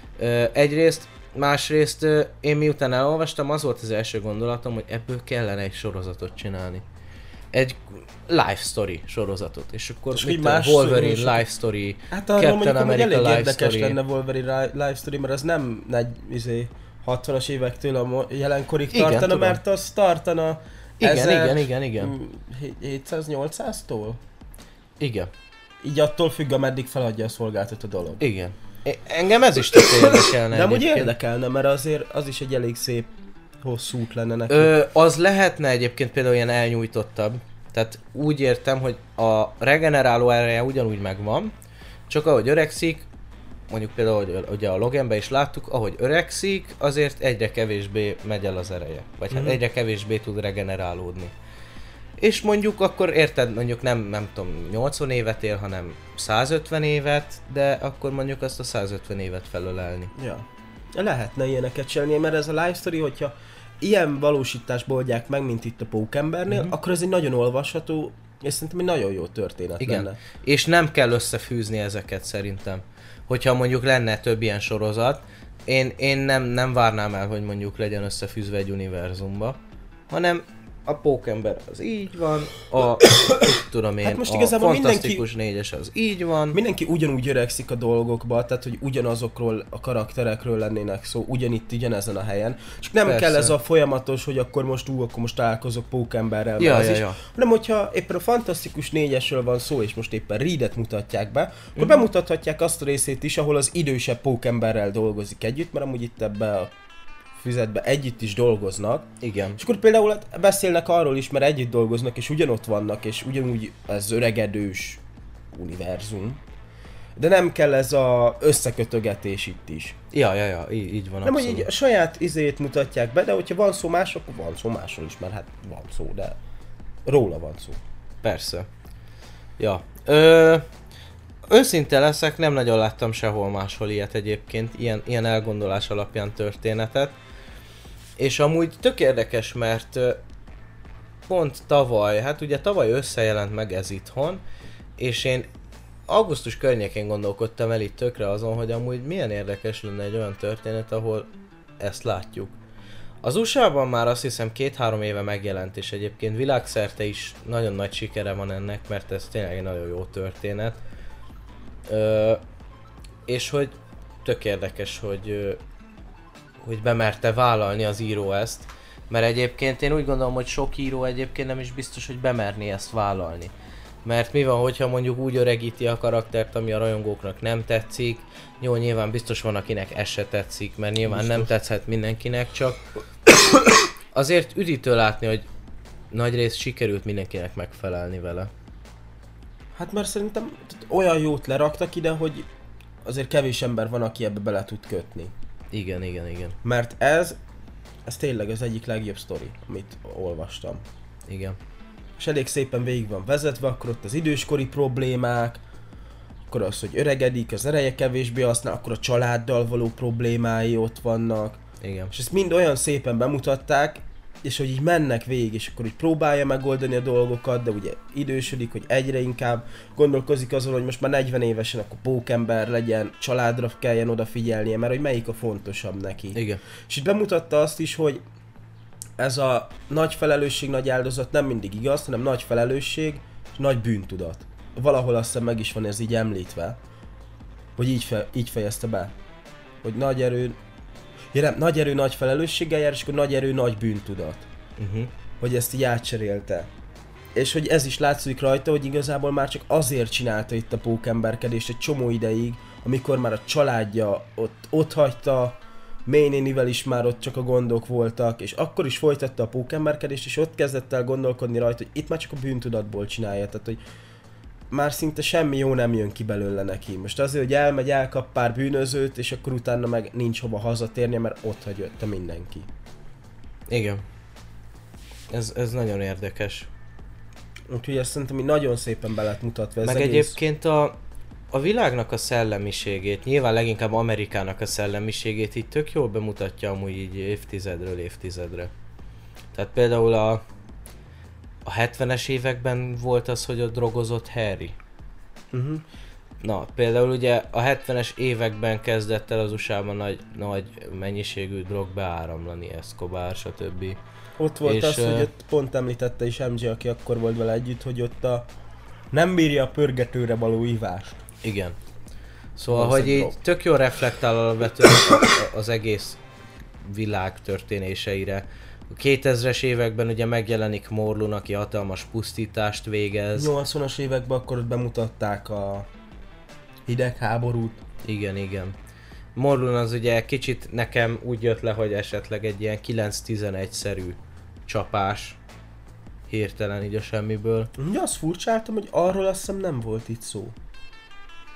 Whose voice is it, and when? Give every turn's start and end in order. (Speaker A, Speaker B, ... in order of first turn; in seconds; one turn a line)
Speaker A: 0.2-6.8
Speaker A: 7.5-14.0
Speaker B: 10.1-11.4
Speaker B: 12.1-24.2
Speaker A: 18.9-19.6
Speaker A: 21.0-22.1
Speaker A: 25.0-25.3
Speaker B: 25.8-28.2
Speaker A: 28.2-31.1
Speaker B: 29.7-33.1
Speaker B: 33.6-34.7
Speaker A: 34.5-41.5
Speaker A: 42.1-43.1
Speaker A: 43.7-51.3
Speaker B: 49.3-49.6
Speaker A: 52.2-60.1
Speaker B: 60.1-70.2
Speaker A: 69.8-79.6
Speaker A: 80.1-86.6
Speaker B: 84.0-85.3
Speaker B: 86.5-106.7
Speaker A: 93.0-93.5
Speaker A: 96.6-97.2
Speaker B: 107.4-116.4
Speaker A: 109.2-109.6
Speaker B: 117.2-120.0
Speaker A: 120.1-121.7
Speaker B: 121.2-126.4
Speaker B: 127.0-127.8
Speaker A: 128.2-128.7
Speaker A: 129.6-130.7
Speaker A: 131.5-137.2
Speaker A: 138.2-140.2
Speaker A: 141.3-144.4
Speaker A: 145.0-145.5
Speaker A: 146.1-151.3
Speaker A: 151.8-152.6
Speaker A: 153.2-160.8
Speaker A: 161.9-162.4
Speaker A: 163.3-165.6
Speaker A: 166.6-173.5
Speaker A: 174.1-182.8
Speaker B: 181.1-181.5
Speaker A: 184.1-185.4
Speaker A: 186.1-188.5
Speaker B: 189.8-192.5
Speaker B: 193.0-195.3
Speaker A: 195.7-196.6
Speaker B: 196.6-197.4
Speaker B: 198.1-200.8
Speaker A: 201.3-201.6
Speaker B: 202.2-205.6
Speaker B: 206.5-228.2
Speaker A: 211.8-212.1
Speaker A: 226.3-226.6
Speaker B: 229.2-236.8
Speaker B: 237.8-239.1
Speaker B: 239.8-240.6
Speaker B: 241.3-244.5
Speaker A: 244.8-245.1
Speaker B: 245.4-246.7
Speaker B: 247.3-263.8
Speaker B: 264.7-272.7
Speaker A: 273.7-274.0
Speaker A: 275.3-276.7
Speaker B: 277.7-280.4
Speaker A: 279.8-281.0
Speaker A: 281.5-288.7
Speaker A: 289.5-290.4
Speaker A: 291.7-294.8
Speaker B: 295.5-295.8
Speaker A: 296.4-304.0
Speaker B: 304.4-308.5
Speaker A: 304.6-305.3
Speaker B: 309.1-311.2
Speaker A: 311.4-311.8
Speaker A: 312.6-316.2
Speaker B: 312.7-313.4
Speaker A: 316.8-323.5
Speaker B: 323.4-325.9
Speaker B: 326.9-327.8
Speaker A: 328.0-328.8
Speaker A: 329.4-335.4
Speaker A: 336.3-337.7
Speaker B: 337.8-340.6